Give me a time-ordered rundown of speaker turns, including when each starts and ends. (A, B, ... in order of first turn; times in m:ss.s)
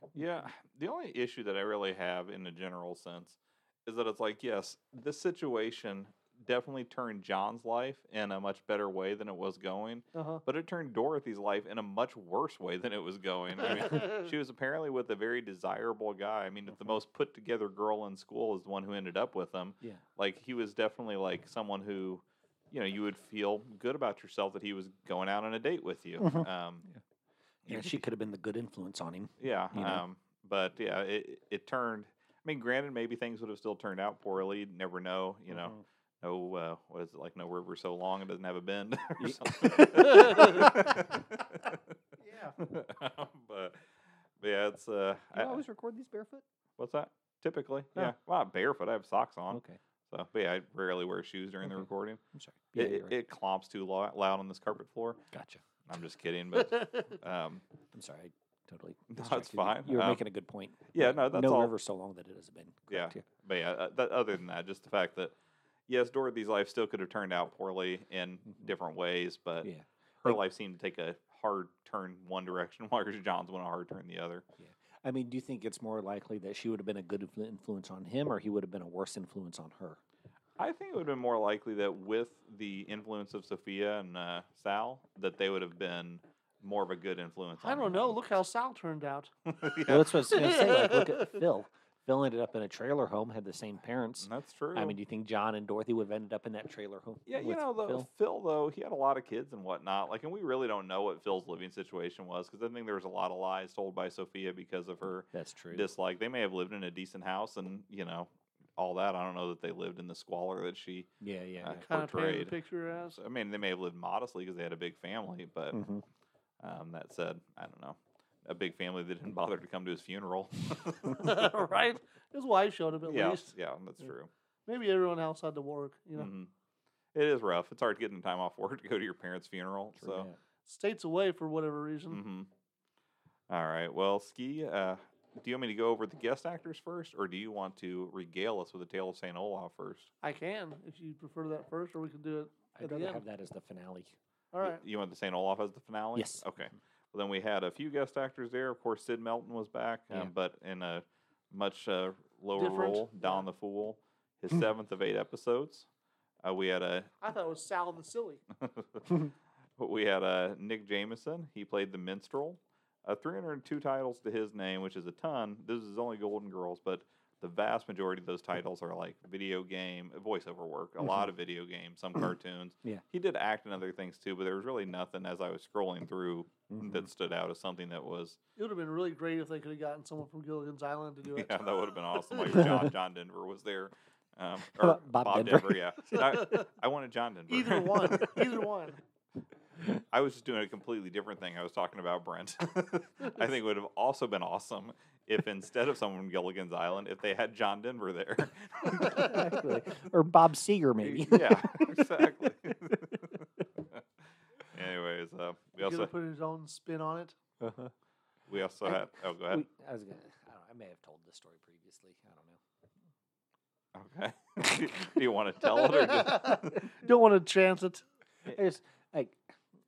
0:00.1-0:26.8 A
0:10.1-0:10.4 B
0:26.2-0:27.0 C
0:27.6-0:28.0 A
0:27.7-0:30.0 C
0:29.4-0:41.8 A
0:39.2-0:41.1 C
0:42.2-0:42.6 B
0:42.6-0:43.8 A
0:44.4-0:45.6 A
0:45.3-0:46.4 C
0:46.8-0:52.2 A
0:49.5-0:49.8 C
0:51.6-0:53.1 C
0:52.8-0:55.2 A
0:55.3-0:55.6 C
0:55.9-0:57.6 A
0:57.9-1:03.2 C
0:59.1-1:00.2 A
1:00.9-1:01.7 A
1:02.9-1:05.3 A
1:05.9-1:09.7 A
1:09.6-1:10.4 C
1:10.2-1:14.4 A
1:14.6-1:20.0 C
1:20.6-1:28.2 A
1:27.6-1:29.3 B
1:29.5-1:30.4 A
1:29.9-1:38.1 C
1:30.3-1:31.4 B
1:34.2-1:35.0 A
1:37.3-1:51.1 A
1:45.3-1:45.9 C
1:51.2-1:51.9 C
1:51.6-1:52.5 A
1:51.8-1:53.2 B
1:53.2-1:55.8 A
1:55.7-1:56.0 C
1:56.6-2:01.3 A
2:01.1-2:03.5 B
2:03.0-2:04.3 A
2:04.7-2:06.3 B
2:06.2-2:06.5 A
2:07.1-2:10.3 A
2:10.0-2:10.4 C
2:10.7-2:12.2 B
2:12.1-2:12.5 A
2:13.5-2:20.1 A
2:20.2-2:23.2 B
2:22.8-2:24.2 C
2:24.5-2:24.8 B
2:24.6-2:35.9 A
2:26.2-2:26.4 C
2:32.6-2:33.5 B
2:36.4-2:37.1 A
2:37.2-2:38.4 B
2:38.6-2:39.2 A
2:39.8-2:58.4 A
2:56.7-2:57.1 C
2:58.6-3:01.7 B
3:01.2-3:08.5 A
3:02.5-3:02.9 C
3:04.7-3:06.2 C
3:06.2-3:06.6 B
3:07.5-3:09.0 B
3:10.1-3:19.4 A
3:18.9-3:22.1 C
3:21.0-3:24.0 A
3:22.8-3:23.4 C
3:24.7-3:26.1 A
3:25.8-3:27.4 B
3:27.6-3:27.9 C
3:28.5-3:29.6 A
3:28.9-3:32.6 C
3:34.0-3:36.9 A
3:35.8-3:38.0 B
3:38.4-3:39.5 C